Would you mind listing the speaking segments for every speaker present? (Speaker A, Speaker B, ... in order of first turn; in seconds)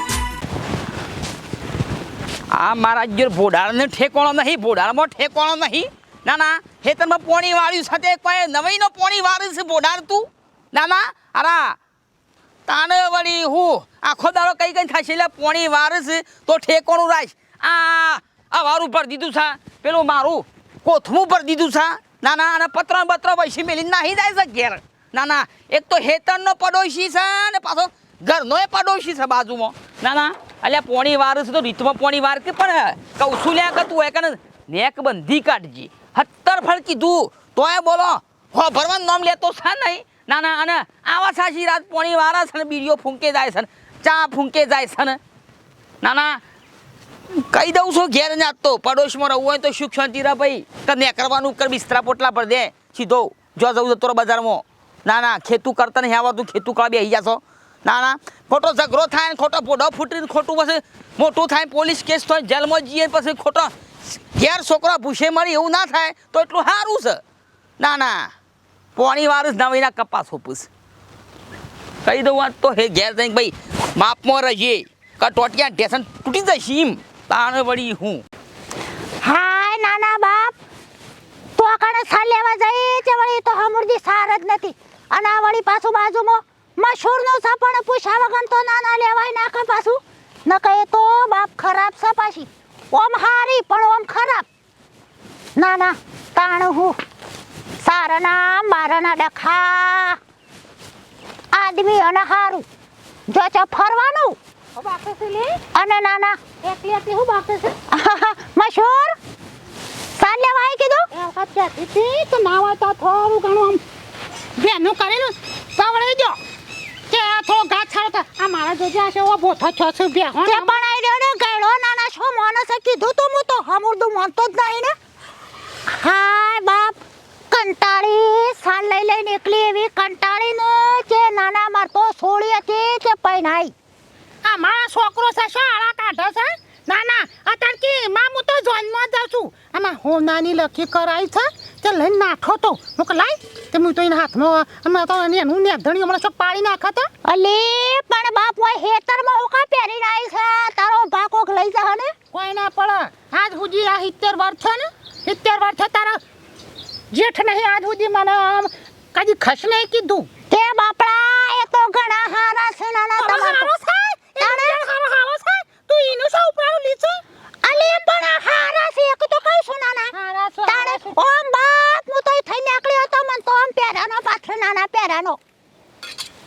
Speaker A: 2.5-11.8, 12.7-45.2, 46.0-46.4, 47.5-63.7, 64.3-67.2, 67.8-68.3, 69.0-70.7, 72.0-78.2
Speaker B: 79.2-80.5, 81.6-94.5, 95.6-97.0, 97.8-100.2, 101.5-102.7, 103.3-104.4, 105.7-106.4, 107.9-109.2, 110.2-111.1, 120.4-124.9, 125.9-127.0, 127.5-133.7, 147.2-152.1, 160.5-163.7, 164.4-164.8, 167.6-170.1, 170.7-175.4
Speaker C: 104.8-105.6, 106.6-107.8, 111.1-113.8, 114.6-116.4, 117.1-120.8, 134.4-147.1, 152.3-156.2, 157.1-160.3, 163.2-167.2, 170.1-171.1